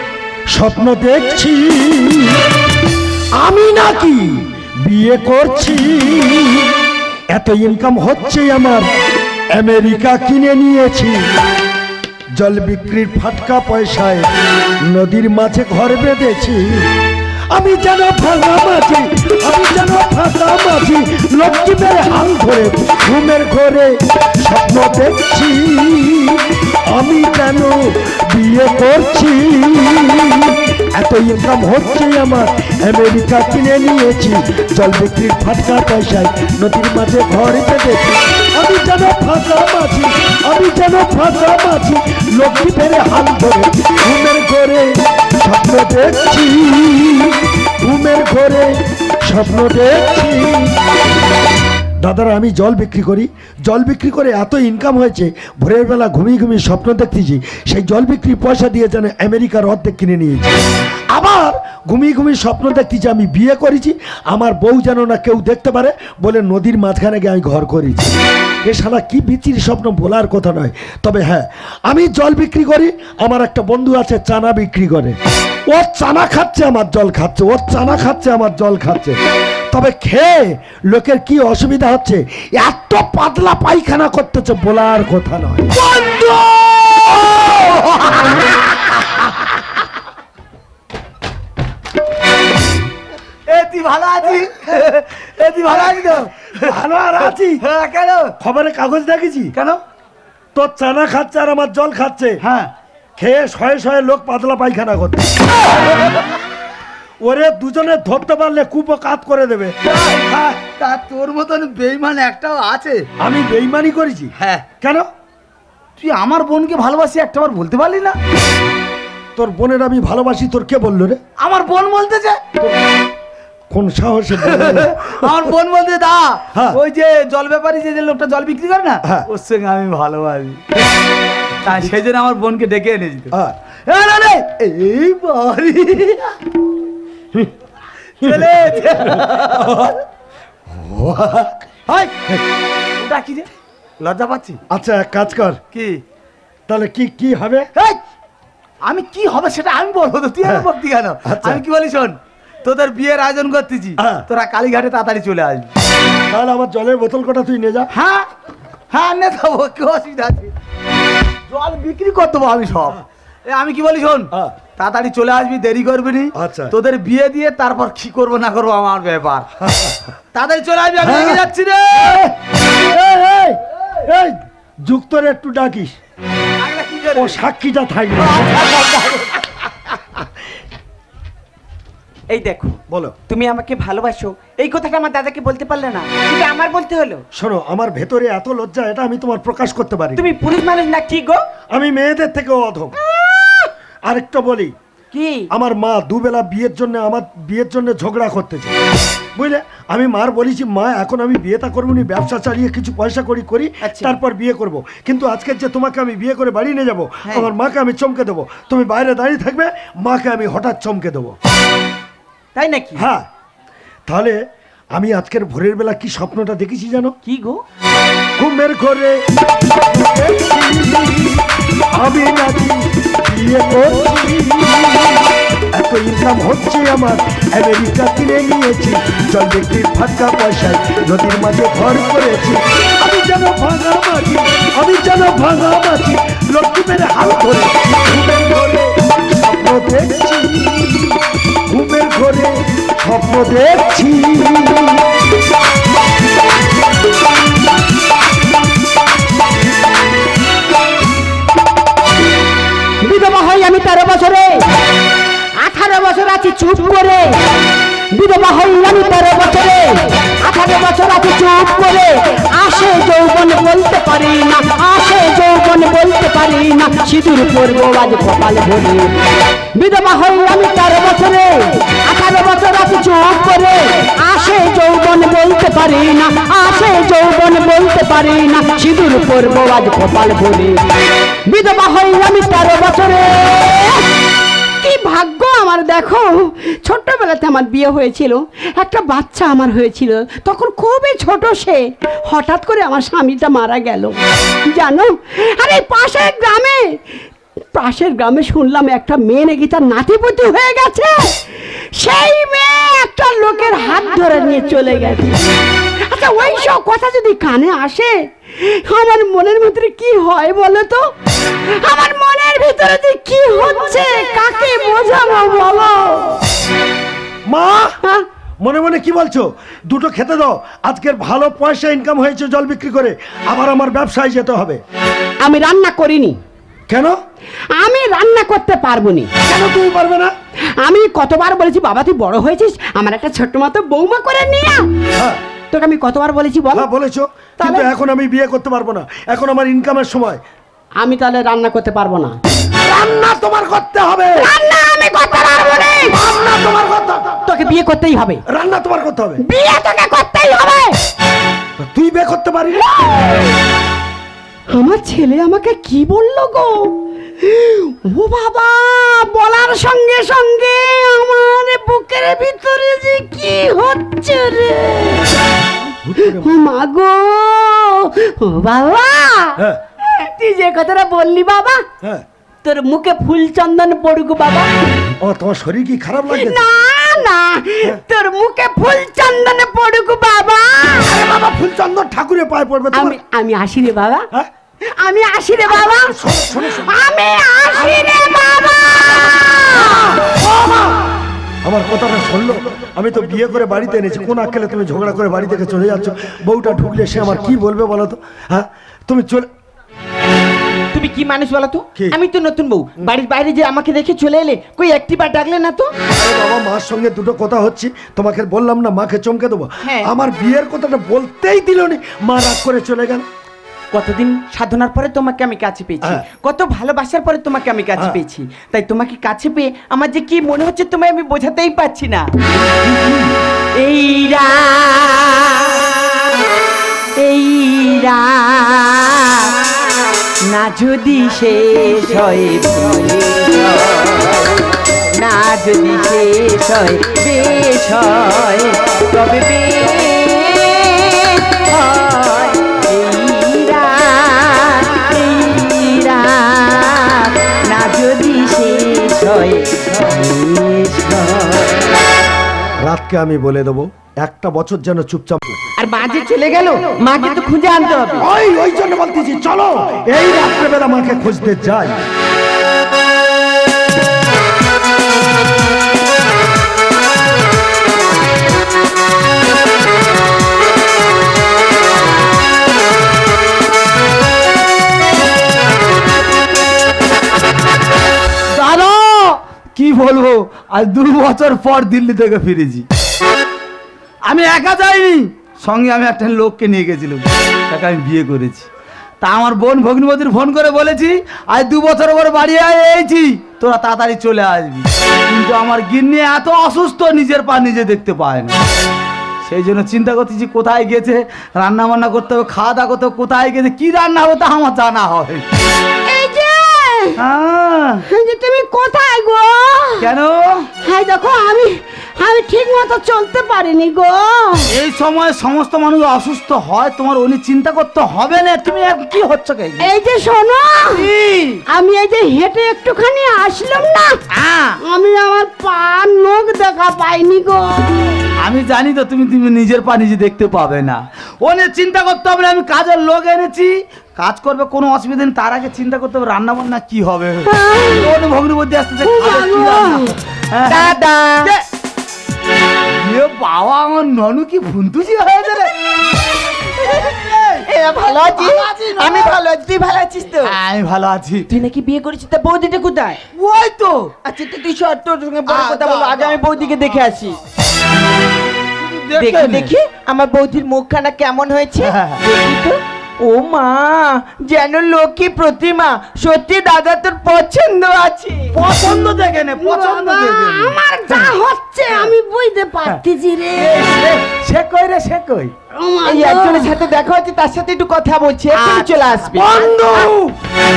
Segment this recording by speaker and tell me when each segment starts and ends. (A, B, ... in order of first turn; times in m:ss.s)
0:00.5-0:02.4 A
0:03.4-0:06.8 A
0:07.3-0:08.9 A
0:09.5-0:11.2 A
0:12.3-0:14.3 A
0:14.8-0:16.9 A
0:17.5-0:50.8 A
0:52.0-1:08.1 A
1:08.6-1:19.2 A
1:19.7-1:25.7 A
1:25.7-1:29.4 B
1:33.5-1:38.3 B
1:36.6-1:37.6 A
1:38.4-1:39.5 A
1:40.5-1:42.4 A
1:42.4-1:42.7 B
1:43.2-1:45.3 A
1:47.2-1:50.6 A
1:49.8-1:53.1 B
1:53.2-1:55.0 A
1:54.4-1:54.7 B
1:56.0-1:58.2 B
1:59.4-2:01.2 A
2:01.4-2:02.4 B
2:03.7-2:05.4 A
2:04.4-2:10.6 B
2:06.5-2:06.8 A
2:11.6-2:13.3 B
2:13.3-2:13.6 A
2:13.8-2:16.4 B
2:18.2-2:19.8 B
2:18.2-2:18.5 A
2:19.2-2:20.0 A
2:20.7-2:22.4 A
2:23.0-2:23.5 B
2:24.0-2:24.6 B
2:24.7-2:25.6 A
2:25.7-2:26.0 B
2:26.7-2:27.7 A
2:28.8-2:35.7 B
2:30.4-2:30.7 A
2:31.2-2:31.6 A
2:34.0-2:34.2 A
2:36.3-2:37.9 A
2:37.9-2:38.3 B
2:38.9-2:40.5 B
2:41.5-2:49.5 B
2:46.3-2:46.7 A
2:49.6-2:50.0 A
2:50.3-2:52.2 B
2:51.0-2:55.9 A
2:56.6-2:57.4 B
2:57.1-2:58.6 A
2:58.2-2:59.7 B
3:02.3-3:07.2 C
3:02.9-3:03.2 A
3:07.3-3:10.3 A
3:10.2-3:11.4 C
3:11.7-3:13.0 A
3:14.0-3:14.7 A
3:15.1-3:15.5 C
3:15.5-3:18.8 A
3:19.3-3:31.3 A
3:32.5-3:33.0 C
3:33.0-3:33.3 A
3:34.1-3:34.4 A
3:34.9-3:37.1 A
3:37.2-3:37.6 C
3:38.4-4:05.0 A
4:13.0-4:14.6 D
4:15.5-4:17.4 D
4:18.1-4:29.1 D
4:29.7-4:40.8 D
4:41.4-4:44.1 D
4:44.8-4:54.2 D
4:54.7-4:56.8 D
4:57.7-5:05.5 D
5:06.0-5:16.4 D
5:17.5-5:18.0 A
5:18.6-5:24.8 A
5:25.4-5:26.4 D
5:26.9-5:27.2 A
5:27.8-5:29.3 D
5:29.4-5:30.3 A
5:30.8-5:34.8 D
5:35.2-5:35.4 A
5:35.7-5:36.8 D
5:36.7-5:40.4 A
5:37.6-5:37.9 D
5:41.0-5:42.4 D
5:42.8-5:44.5 A
5:44.4-5:46.2 D
5:46.1-5:47.4 A
5:47.5-5:48.4 D
5:48.5-5:49.4 A
5:49.4-5:51.0 D
5:51.8-5:53.3 A
5:54.7-6:05.4 D
6:06.0-6:06.5 A
6:06.2-6:11.8 D
6:12.6-6:14.7 D
6:15.2-6:16.6 A
6:16.3-6:21.2 D
6:21.0-6:23.2 A
6:22.9-6:24.3 D
6:24.9-6:30.2 D
6:25.8-6:26.9 A
6:30.1-6:31.1 A
6:31.6-6:39.5 A
6:40.9-6:45.9 C
6:46.1-6:53.2 A
6:53.9-7:02.3 C
6:58.0-6:58.2 A
7:03.8-7:06.2 C
7:07.2-7:09.5 C
7:10.4-7:14.4 C
7:15.1-7:31.8 C
7:32.8-7:35.6 A
7:35.8-7:38.3 C
7:38.2-7:42.0 A
7:58.5-8:02.8 B
8:04.2-8:08.7 B
8:09.2-8:18.6 B
8:19.4-8:25.4 B
8:26.1-8:27.2 D
8:27.2-8:28.0 B
8:28.0-8:30.1 D
8:30.0-8:30.7 B
8:30.8-8:34.7 D
8:34.7-8:39.9 B
8:39.8-8:41.1 D
8:40.9-8:41.6 B
8:41.7-8:44.2 D
8:44.3-8:44.8 B
8:44.8-8:48.1 D
8:48.4-9:01.6 B
8:57.4-8:58.1 D
8:59.0-9:00.2 D
9:00.6-9:01.5 C
9:02.9-9:05.8 B
9:06.5-9:09.4 B
9:07.6-9:10.5 C
9:10.4-9:11.5 B
9:11.5-9:13.2 C
9:13.3-9:14.1 B
9:14.2-9:17.4 C
9:15.4-9:16.4 B
9:18.8-9:19.7 B
9:19.2-9:28.6 C
9:21.8-9:22.2 B
9:28.5-9:31.4 B
9:29.6-9:33.9 D
9:33.6-9:35.5 B
9:35.7-9:36.9 D
9:36.0-9:39.5 C
9:38.5-9:40.3 B